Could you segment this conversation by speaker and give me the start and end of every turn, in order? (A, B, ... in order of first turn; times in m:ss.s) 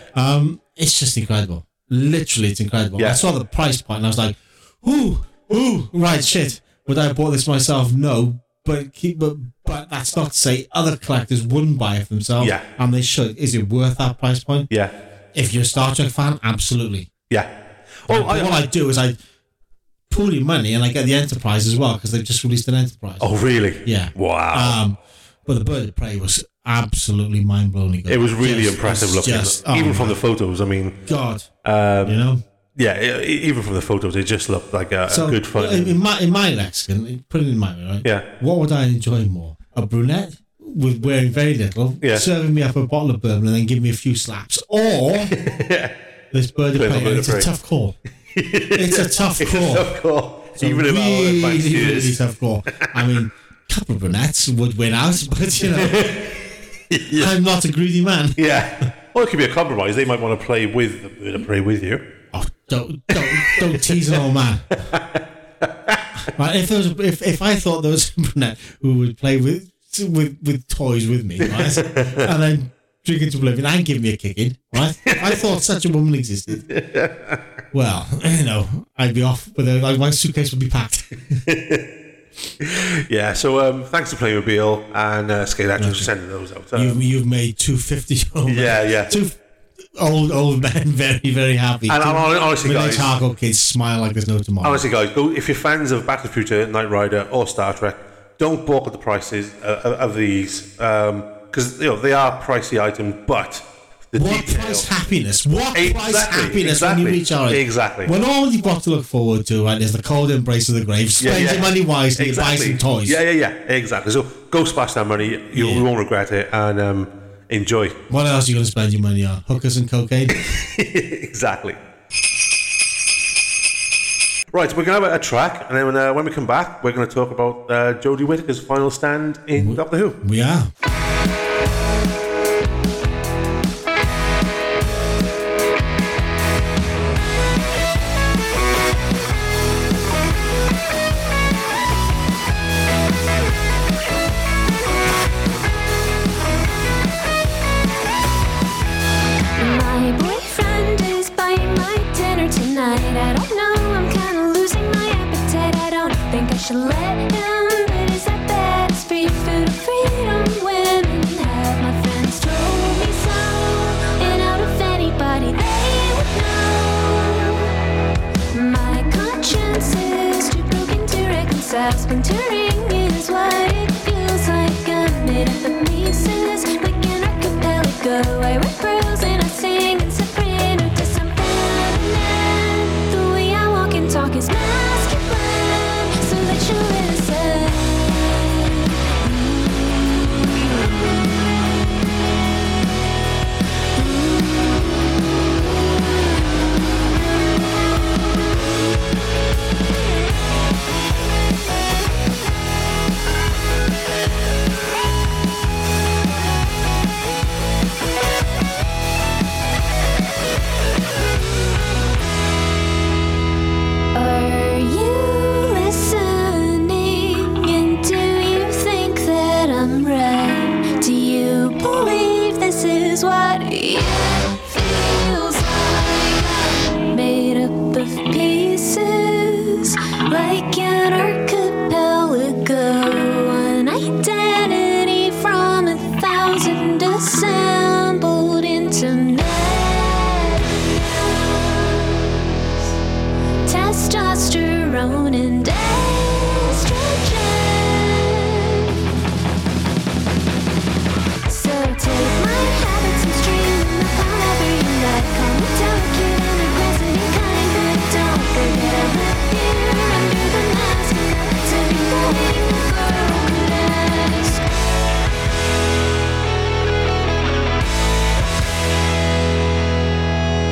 0:00.2-0:14.7 A
0:03.0-0:03.2 B
0:12.4-0:12.6 B
0:15.3-0:17.1 A
0:18.0-0:18.6 B
0:18.1-0:19.2 A
0:20.1-0:23.3 A
0:23.2-0:24.8 B
0:23.8-0:30.2 A
0:28.1-0:31.0 B
0:31.1-0:31.5 A
0:31.6-0:32.2 B
0:32.0-0:32.4 A
0:32.8-0:36.0 B
0:35.1-0:45.4 A
0:42.0-0:42.3 B
0:45.4-0:45.9 B
0:46.3-0:48.0 A
0:46.8-0:47.5 B
0:48.3-0:52.2 B
0:48.8-0:49.9 A
0:50.6-0:56.3 A
0:55.6-0:56.4 B
0:56.9-0:57.3 B
0:57.1-0:58.4 A
0:58.4-1:02.0 B
1:02.3-1:04.8 A
1:03.1-1:04.2 B
1:04.8-1:06.1 B
1:06.3-1:16.6 A
1:11.4-1:12.3 B
1:15.1-1:15.4 B
1:16.5-1:17.4 B
1:17.7-1:21.4 A
1:21.4-1:21.8 B
1:22.6-1:27.0 B
1:25.8-1:26.1 A
1:26.7-1:29.4 A
1:28.5-1:29.2 B
1:30.0-1:34.8 A
1:31.9-1:33.1 B
1:34.6-1:44.9 B
1:44.2-1:53.2 A
1:45.7-1:48.1 B
1:51.2-1:58.0 B
1:55.5-1:55.9 A
1:58.1-2:00.4 A
2:00.4-2:01.8 B
2:04.5-2:10.2 B
2:09.6-2:10.7 A
2:29.6-2:47.7 C
2:48.5-3:10.8 C
3:34.1-4:02.6 C
4:03.7-4:08.9 C
4:11.5-4:24.6 C